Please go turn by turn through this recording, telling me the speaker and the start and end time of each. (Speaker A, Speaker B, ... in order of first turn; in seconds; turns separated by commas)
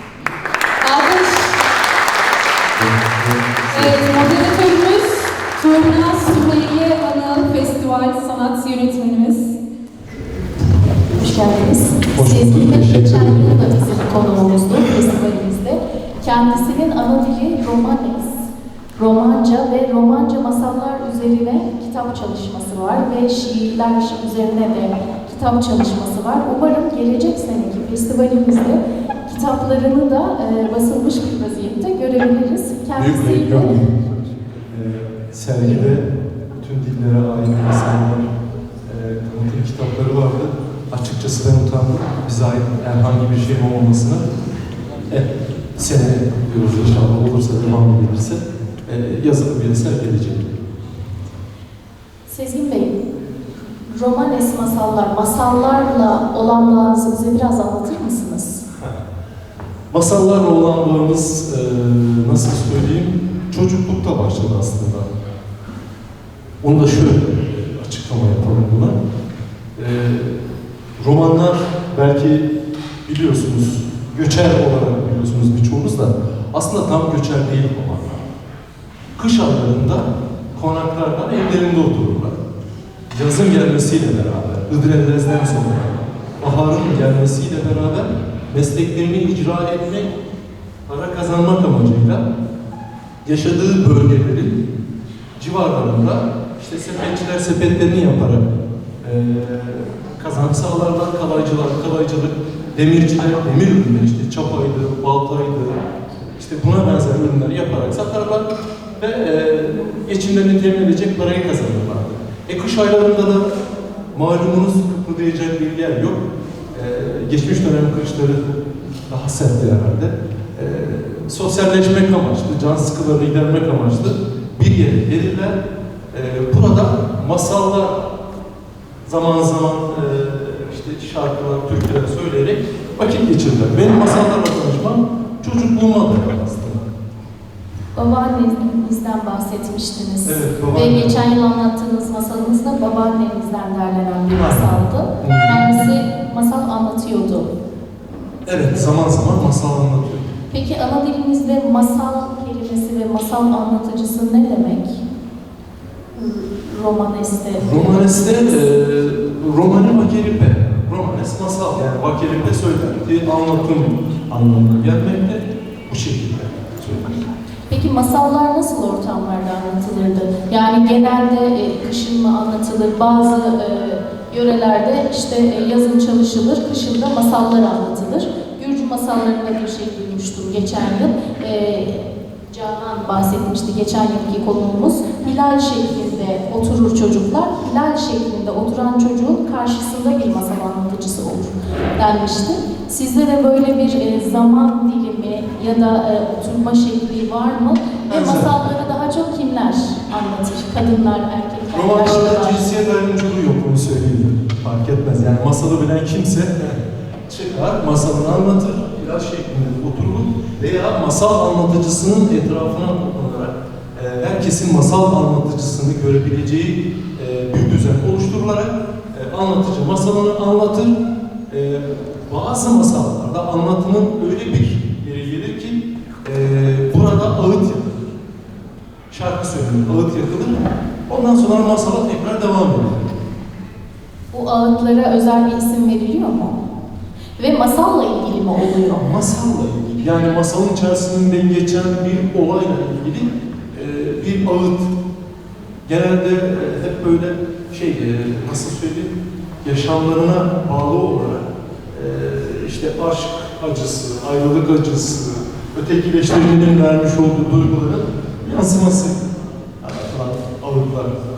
Speaker A: 0.8-1.6, Speaker B: 2.8-4.4, Speaker A: 3.7-9.6, Speaker C: 11.1-18.4, Speaker B: 12.1-13.7, Speaker C: 19.0-33.8, Speaker B: 33.0-38.3, Speaker C: 35.6-35.9, Speaker B: 38.9-44.2, Speaker B: 45.1-50.6, Speaker C: 52.3-53.0, Speaker C: 53.9-58.7, Speaker B: 59.9-65.1, Speaker B: 66.6-69.0, Speaker B: 69.8-72.5, Speaker B: 73.1-78.2, Speaker B: 79.2-82.4, Speaker B: 83.1-90.1, Speaker B: 90.9-92.2, Speaker B: 93.2-94.6, Speaker B: 95.4-98.4, Speaker B: 99.0-108.5, Speaker B: 109.0-113.5, Speaker B: 114.1-125.6, Speaker B: 126.1-128.1, Speaker B: 129.1-136.8, Speaker C: 137.9-147.5, Speaker B: 140.2-141.2, Speaker B: 144.4-145.7, Speaker B: 148.5-150.3, Speaker C: 150.5-155.0, Speaker C: 156.2-158.6, Speaker B: 157.6-167.2, Speaker C: 167.7-202.6, Speaker B: 198.1-198.6, Speaker B: 201.7-220.9, Speaker B: 221.5-228.1, Speaker B: 229.1-233.1, Speaker C: 234.3-236.6, Speaker C: 237.4-239.0, Speaker B: 239.0-244.9, Speaker B: 245.9-259.2, Speaker B: 259.8-261.1